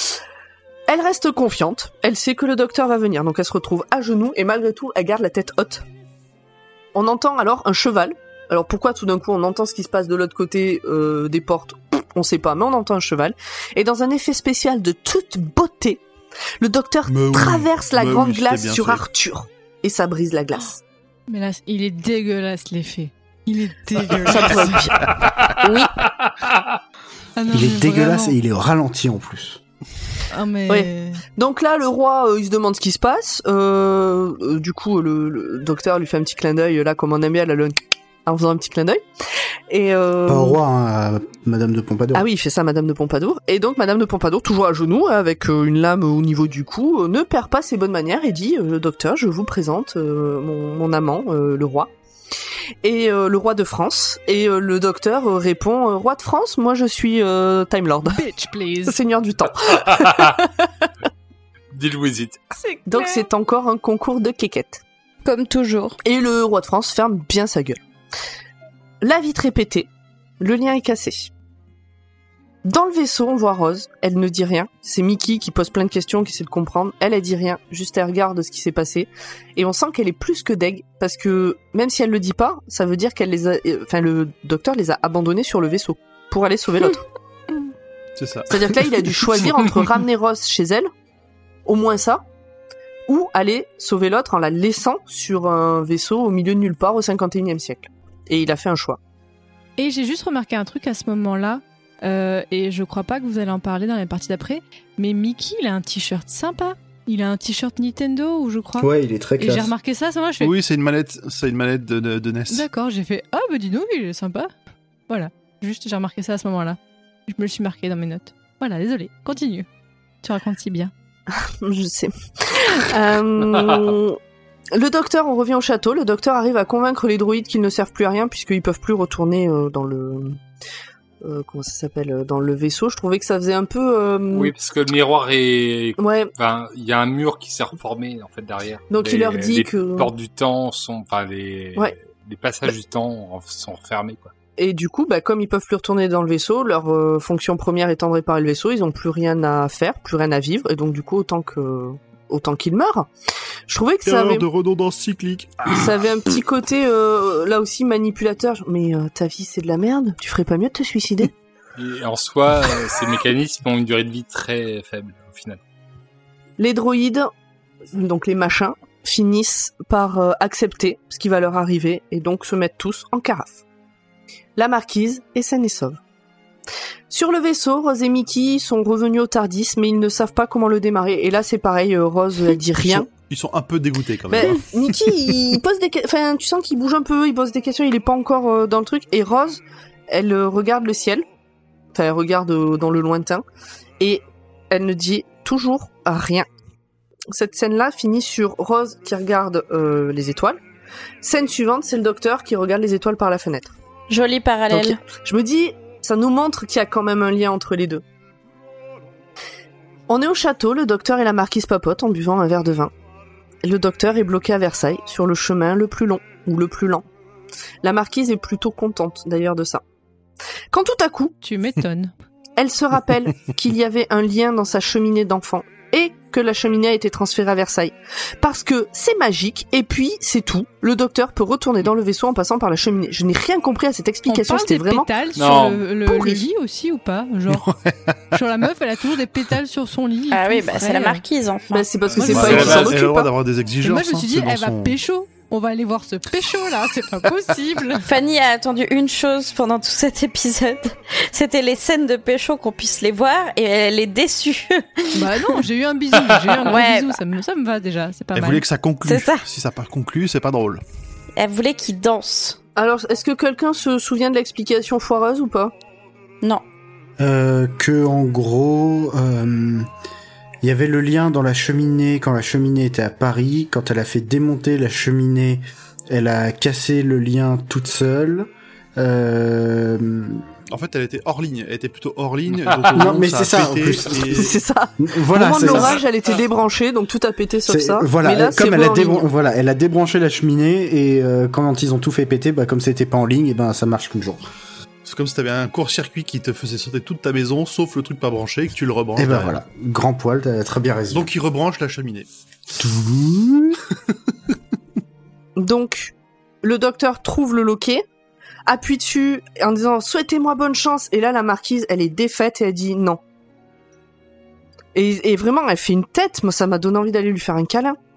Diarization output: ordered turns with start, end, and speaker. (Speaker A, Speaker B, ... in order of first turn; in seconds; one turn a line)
Speaker A: 0.9-5.8
Speaker A: 6.9-16.0
Speaker A: 16.6-20.8
Speaker B: 17.1-19.0
Speaker C: 21.3-24.9
Speaker A: 24.2-25.1
Speaker D: 25.6-25.9
Speaker C: 27.4-28.4
Speaker E: 27.5-29.6
Speaker C: 30.3-31.2
Speaker A: 30.7-39.0
Speaker A: 39.7-40.6
Speaker E: 40.3-42.2
Speaker A: 42.1-51.9
Speaker A: 52.8-58.2
Speaker C: 58.0-59.0
Speaker A: 58.9-60.9
Speaker F: 59.9-60.3
Speaker F: 61.7-62.4
Speaker C: 62.5-63.3
Speaker A: 62.9-64.8
Speaker D: 65.2-66.0
Speaker A: 66.0-67.8
Speaker A: 69.0-69.9
Speaker A: 70.4-71.3
Speaker A: 72.6-87.0
Speaker B: 88.2-89.3
Speaker A: 88.5-90.9
Speaker A: 91.7-92.2
Speaker A: 93.1-99.0
Speaker C: 99.8-110.5
Speaker E: 108.8-109.7
Speaker B: 110.4-112.7
Speaker C: 112.5-114.5
Speaker C: 115.1-119.7
Speaker C: 120.2-120.9
Speaker A: 121.3-124.2
Speaker A: 124.7-130.4
Speaker A: 131.2-134.5
Speaker F: 134.3-144.3
Speaker A: 136.0-136.3
Speaker A: 138.9-140.1
Speaker A: 144.6-153.1
Speaker A: 153.7-154.5
Speaker B: 154.0-155.8
Speaker A: 155.7-161.3
Speaker F: 161.8-165.6
Speaker A: 166.6-167.3
Speaker A: 167.9-173.6
Speaker A: 174.6-176.0
Speaker A: 177.1-183.1
Speaker B: 182.8-184.7
Speaker A: 184.3-191.2
Speaker A: 191.9-193.4
Speaker A: 194.0-196.5
Speaker A: 197.3-200.6
Speaker A: 201.2-203.7
Speaker D: 204.1-205.0
Speaker A: 204.7-208.0
Speaker A: 210.1-212.9
Speaker A: 213.6-217.0
Speaker A: 217.8-219.8
Speaker A: 220.7-221.3
Speaker C: 221.4-222.1
Speaker A: 222.6-235.1
Speaker C: 234.3-237.7
Speaker F: 235.3-235.8
Speaker A: 236.1-236.4
Speaker B: 237.5-238.2
Speaker C: 238.3-241.2
Speaker D: 240.3-241.8
Speaker A: 241.7-243.3
Speaker C: 242.2-242.8
Speaker B: 242.2-245.0
Speaker F: 242.2-243.0
Speaker C: 243.8-248.1
Speaker D: 248.0-255.6
Speaker C: 255.1-258.6
Speaker D: 256.6-257.2
Speaker B: 258.3-260.8
Speaker D: 259.0-259.4
Speaker D: 261.4-262.6
Speaker A: 262.8-265.7
Speaker E: 267.2-269.9
Speaker E: 270.6-280.5
Speaker B: 280.7-284.6
Speaker E: 282.9-286.0
Speaker A: 284.3-289.2
Speaker E: 287.7-294.4
Speaker B: 295.0-299.5
Speaker E: 299.2-301.3
Speaker B: 301.1-302.3
Speaker E: 302.8-303.8
Speaker A: 305.6-308.0
Speaker A: 308.6-313.2
Speaker A: 314.9-318.0